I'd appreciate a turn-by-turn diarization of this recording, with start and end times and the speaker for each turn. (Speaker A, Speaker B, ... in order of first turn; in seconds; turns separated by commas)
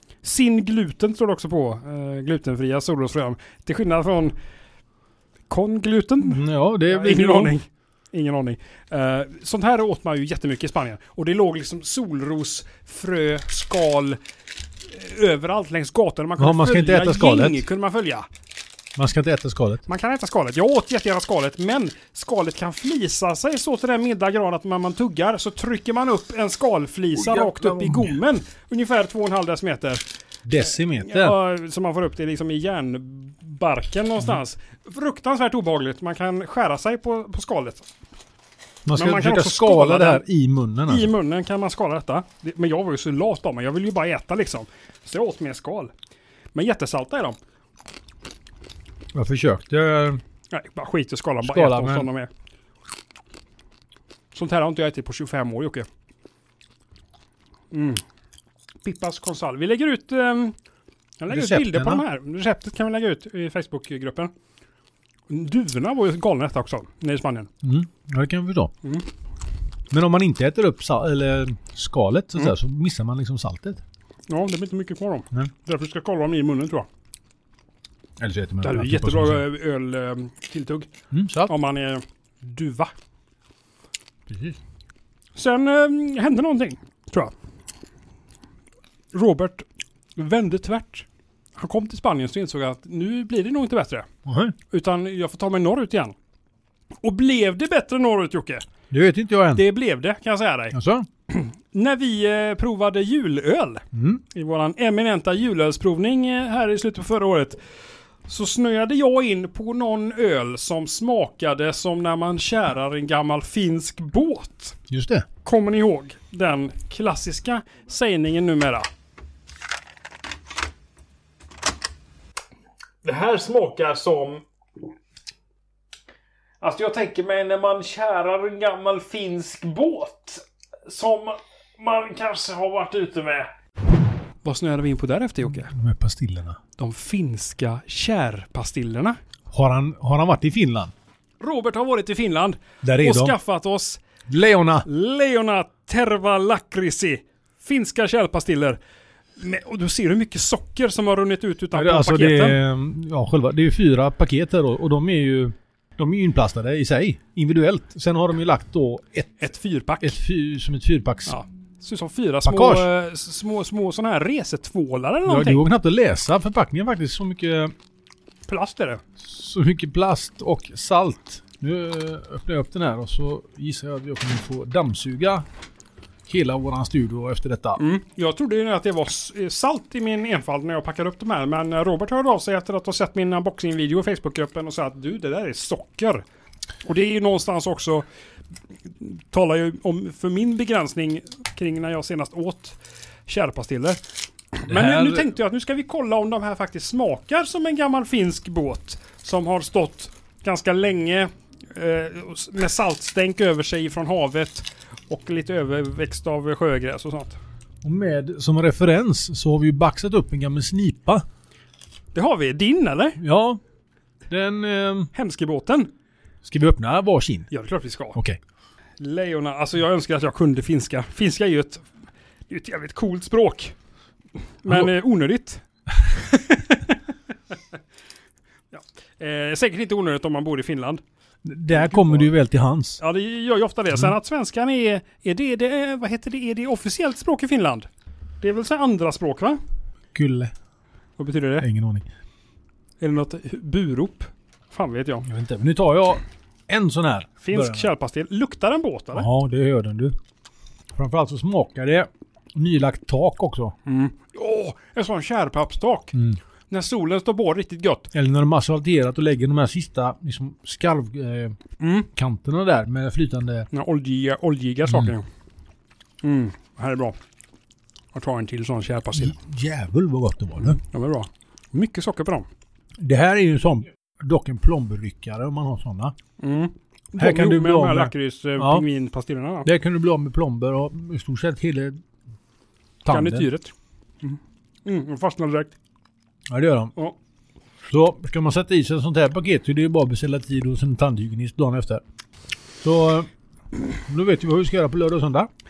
Speaker A: 0.2-4.3, Speaker A: 5.5-14.2, Speaker B: 6.2-7.5, Speaker A: 14.8-18.2, Speaker B: 16.4-17.6, Speaker B: 19.0-19.9, Speaker A: 19.9-30.0, Speaker B: 27.1-28.1, Speaker B: 30.5-31.4, Speaker A: 30.9-37.9, Speaker B: 38.9-41.1, Speaker A: 38.9-40.2, Speaker A: 40.9-45.9, Speaker A: 46.5-47.4, Speaker B: 49.1-50.2, Speaker A: 50.5-52.3, Speaker B: 51.4-52.1, Speaker A: 54.3-55.9, Speaker A: 57.7-58.0, Speaker A: 58.8-60.5, Speaker A: 61.2-64.3, Speaker B: 61.3-62.0, Speaker A: 65.3-67.5, Speaker B: 67.6-68.7, Speaker B: 69.9-73.8, Speaker A: 74.3-76.9, Speaker B: 78.2-79.4, Speaker A: 78.6-80.9, Speaker B: 81.1-81.5, Speaker A: 81.5-82.9, Speaker B: 84.3-84.6, Speaker A: 85.4-87.3, Speaker A: 89.1-89.6, Speaker A: 90.2-91.1, Speaker A: 91.6-94.1, Speaker B: 94.2-94.5, Speaker A: 94.7-96.1, Speaker A: 97.0-98.6, Speaker B: 98.9-99.6, Speaker A: 99.5-100.8, Speaker B: 100.7-101.1, Speaker A: 101.3-107.6, Speaker B: 103.9-104.2, Speaker A: 108.3-114.8, Speaker B: 114.9-115.2, Speaker A: 115.5-118.9, Speaker A: 123.0-124.4, Speaker A: 126.6-133.5, Speaker A: 134.4-135.7, Speaker B: 135.4-136.6, Speaker A: 136.8-139.2, Speaker B: 139.5-140.9, Speaker A: 141.4-144.0, Speaker B: 142.8-143.4, Speaker B: 144.3-144.9, Speaker A: 144.8-148.8, Speaker A: 149.4-152.6, Speaker B: 151.7-159.5, Speaker A: 159.4-160.2, Speaker B: 160.0-161.4, Speaker A: 161.3-165.6, Speaker B: 162.4-162.9, Speaker B: 165.2-167.7, Speaker A: 168.5-169.0, Speaker B: 169.2-175.4, Speaker B: 176.3-177.8, Speaker A: 177.8-186.2, Speaker A: 186.8-188.0, Speaker A: 189.0-194.0, Speaker A: 194.5-207.4, Speaker B: 194.7-195.3, Speaker B: 207.8-211.2, Speaker A: 212.1-213.2, Speaker B: 213.2-213.6, Speaker B: 214.3-215.1, Speaker A: 215.1-215.9, Speaker B: 216.4-217.5, Speaker A: 217.5-218.2, Speaker A: 219.0-221.9, Speaker A: 222.5-223.8, Speaker A: 224.6-227.0, Speaker B: 224.7-224.9, Speaker A: 228.7-231.0, Speaker B: 231.4-233.0, Speaker A: 231.7-232.3, Speaker A: 233.0-237.9, Speaker A: 238.4-239.6, Speaker B: 240.1-240.5, Speaker A: 241.2-241.7, Speaker B: 241.6-242.1, Speaker A: 243.0-245.3, Speaker B: 245.2-247.9, Speaker A: 247.4-249.3, Speaker B: 249.1-250.1, Speaker B: 250.9-253.7, Speaker A: 253.9-256.1, Speaker A: 256.7-258.1, Speaker B: 258.1-261.6, Speaker A: 261.8-262.1, Speaker B: 262.1-263.7, Speaker A: 263.7-265.2, Speaker B: 264.9-265.1, Speaker A: 266.2-267.1, Speaker A: 268.1-269.4, Speaker B: 269.1-270.8, Speaker A: 270.6-272.5, Speaker B: 273.0-276.1, Speaker A: 276.4-279.7, Speaker B: 277.2-278.9, Speaker B: 279.6-282.0, Speaker B: 283.0-283.5, Speaker A: 283.1-285.7, Speaker B: 286.5-286.9, Speaker B: 287.9-292.0, Speaker B: 292.8-293.3, Speaker B: 293.9-295.5